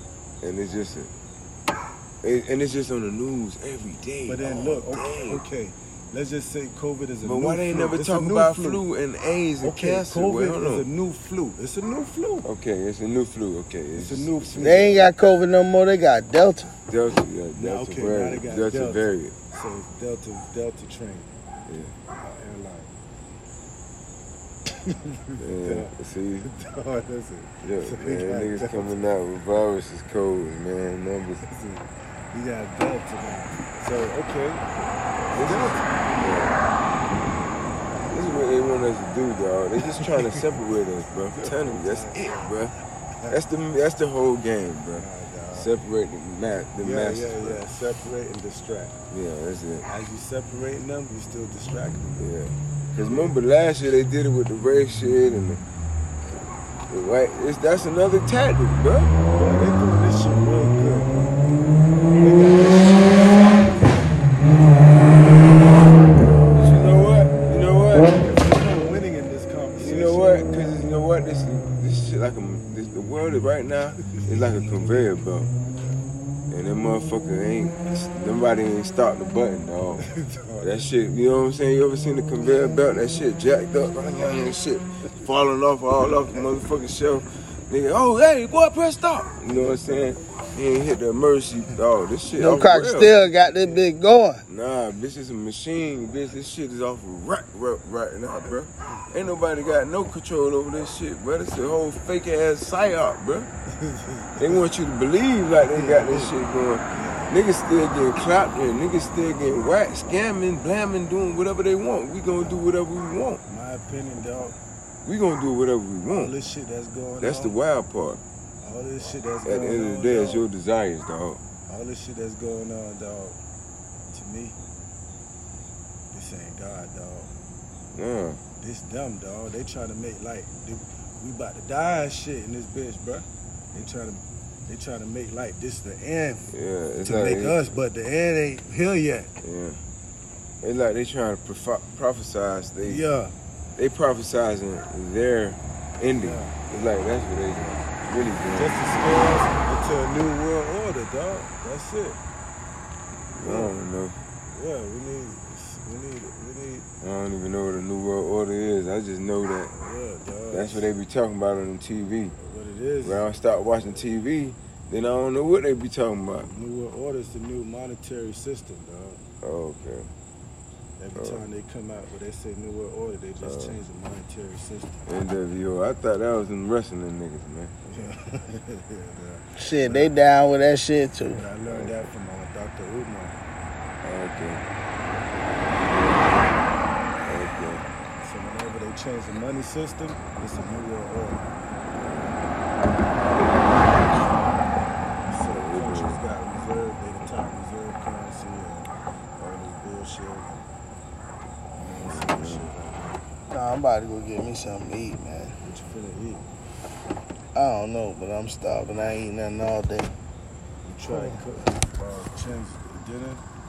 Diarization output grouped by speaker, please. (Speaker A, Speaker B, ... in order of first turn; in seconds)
Speaker A: 0.4-1.1, 2.2-5.4, 7.2-10.9, 12.4-15.1, 16.9-19.3, 21.7-21.9, 25.4-26.5, 27.6-31.4, 35.3-36.6, 38.1-42.7, 43.3-47.6, 49.1-49.9, 52.2-55.6, 56.9-59.2, 66.5-68.3, 69.8-75.5, 76.5-80.0, 80.6-93.8, 94.5-103.5, 104.4-113.4, 115.0-116.3, 117.2-118.2, 119.4-121.4, 127.9-128.4, 136.5-137.7, 139.4-139.8, 140.6-143.0, 143.8-149.2, 153.4-154.2, 157.0-159.7, 160.5-162.3, 163.0-166.5, 169.4-170.1, 171.1-171.4, 173.4-173.8, 175.1-177.7, 181.6-182.1, 184.0-184.6, 185.8-186.6, 187.2-187.8, 191.9-192.4, 195.5-196.2, 201.8-202.7
Speaker B: 4.2-8.8, 9.6-12.4, 13.9-15.1, 17.5-21.3, 22.2-22.9, 24.9-29.1, 31.4-36.0, 39.9-40.4, 41.3-43.4, 45.0-45.7, 46.8-49.0, 49.8-52.3, 53.0-53.4, 59.3-61.4, 62.2-66.5, 68.2-70.5, 74.0-75.2, 80.0-80.9, 86.2-86.6, 89.4-90.2, 103.7-104.6, 105.6-106.4, 106.9-107.4, 112.3-112.7, 113.5-114.6, 116.1-117.6, 118.6-120.5, 121.7-123.4, 124.1-124.6, 126.1-127.3, 128.6-136.5, 137.0-139.3, 142.8-143.3, 146.1-146.8, 147.4-147.8, 148.5-152.2, 153.4-153.7, 154.5-156.9, 159.7-160.9, 162.3-164.1, 166.4-169.2, 171.0-175.0, 177.8-180.1, 181.3-183.3, 188.2-191.4, 193.4-194.4, 195.2-200.7, 201.7-203.2, 205.6-206.4, 210.8-213.4
Speaker C: 14.6-16.7, 92.3-94.4, 179.6-181.4, 203.5-205.6, 207.5-210.1, 211.1-211.4